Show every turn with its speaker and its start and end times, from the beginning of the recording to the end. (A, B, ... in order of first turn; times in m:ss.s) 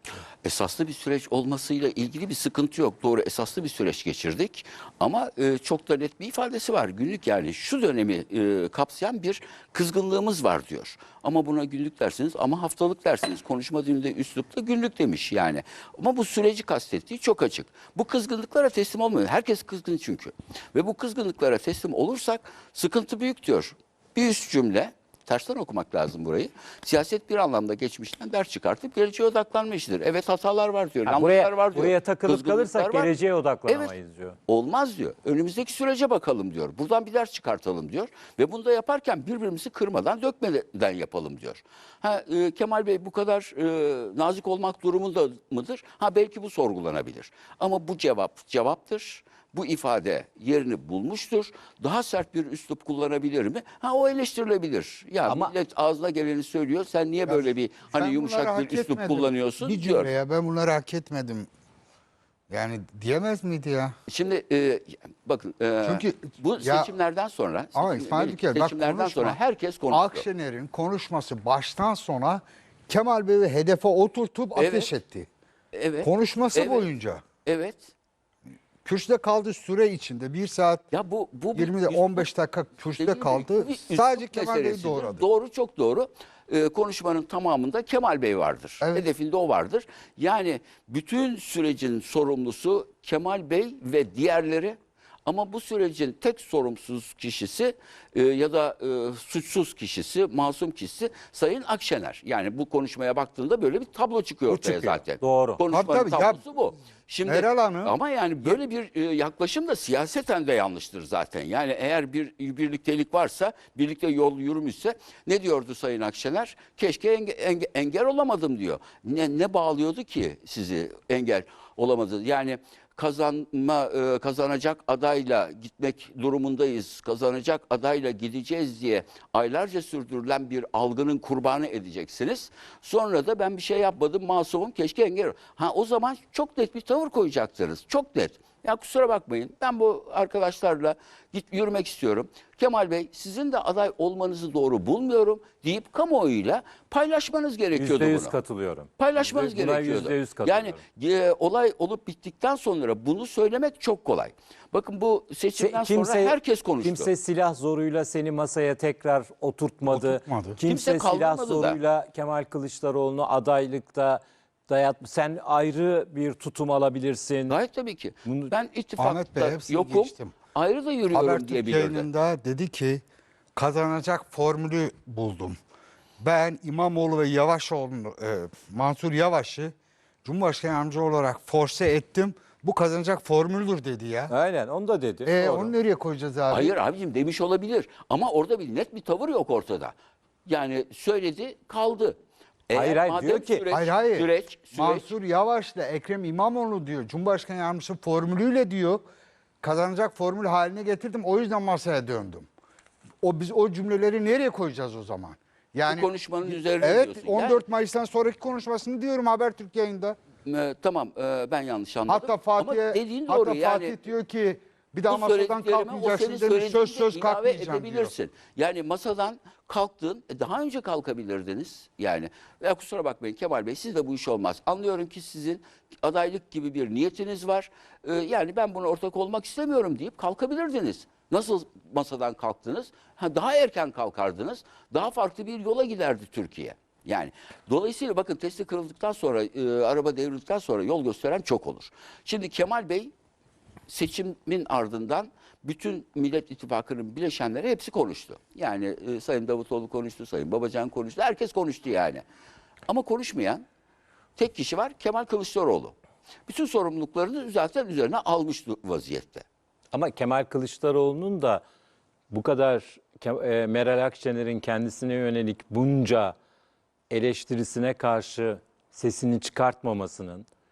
0:00.4-0:33.1 A
0:31.1-0:34.4 B
0:33.7-0:33.9 A
0:34.5-1:00.1 A
0:55.2-0:55.5 B
0:57.3-1:01.5 C
1:02.5-1:03.9 C
1:04.1-1:10.3 A
1:05.8-1:06.9 C
1:07.8-1:09.4 C
1:09.9-1:15.3 C
1:14.6-1:14.9 A
1:15.7-1:16.9 A
1:16.0-1:17.2 C
1:17.4-1:17.9 A
1:18.8-1:20.9 C
1:20.9-1:22.3 A
1:21.6-1:25.3 C
1:23.0-2:28.4 A
1:28.8-1:29.1 C
1:45.2-1:45.6 B
1:45.7-1:46.4 C
1:47.3-1:47.9 C
2:27.8-2:30.8 B
2:29.0-2:37.1 A
2:35.6-2:47.6 B
2:39.9-2:40.6 C
2:40.7-2:41.8 A
2:47.5-2:52.1 A
2:48.2-2:48.5 B
2:49.0-2:50.4 C
2:51.1-2:53.0 C
2:53.6-2:55.6 C
2:56.2-2:59.7 C
3:00.2-3:04.3 C
3:04.3-3:05.7 B
3:05.2-3:06.7 C
3:06.5-3:12.2 A
3:12.7-3:15.1 A
3:12.7-3:13.6 B
3:13.7-3:19.0 C
3:19.6-3:22.5 C
3:23.2-3:30.2 C
3:25.9-3:27.6 A
3:30.4-3:34.0 A
3:32.1-3:38.1 C
3:35.1-4:03.1 A
4:03.9-4:12.2 A
4:12.9-4:13.6 A
4:14.4-4:19.4 A
4:19.9-4:21.6 B
4:22.3-4:26.4 B
4:27.1-4:30.5 B